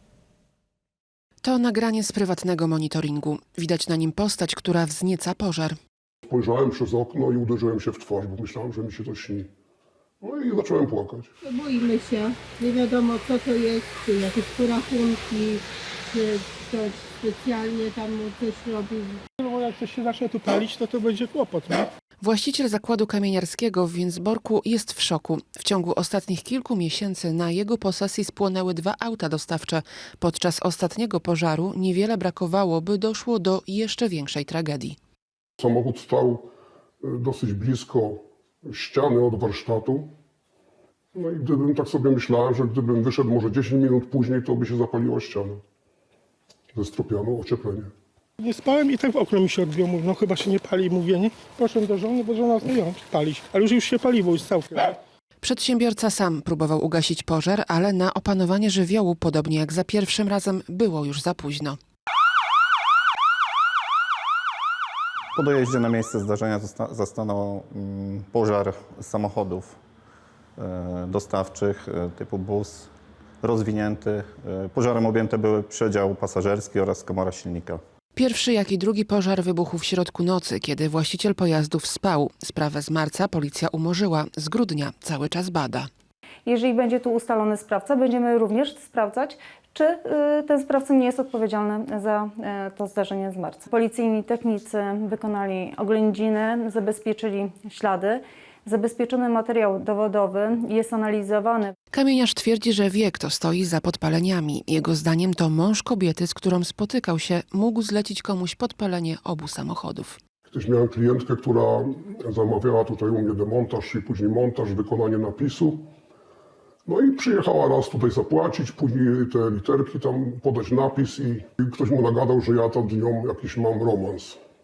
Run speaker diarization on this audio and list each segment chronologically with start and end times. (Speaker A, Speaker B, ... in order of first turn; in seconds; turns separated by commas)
Speaker A: 1.4-5.8, Speaker B: 6.3-9.5, Speaker B: 10.2-11.3, Speaker C: 11.4-19.2, Speaker D: 19.4-21.9, Speaker A: 22.2-35.0, Speaker B: 35.6-36.5, Speaker B: 37.0-40.1, Speaker B: 41.1-45.6, Speaker B: 46.7-47.9, Speaker D: 48.4-55.0, Speaker A: 55.4-61.8, Speaker E: 65.3-69.8, Speaker E: 70.6-72.9, Speaker E: 73.4-77.8, Speaker A: 78.1-85.9, Speaker F: 86.5-101.7, Speaker A: 101.9-110.2, Speaker B: 110.5-115.9, Speaker B: 116.8-124.4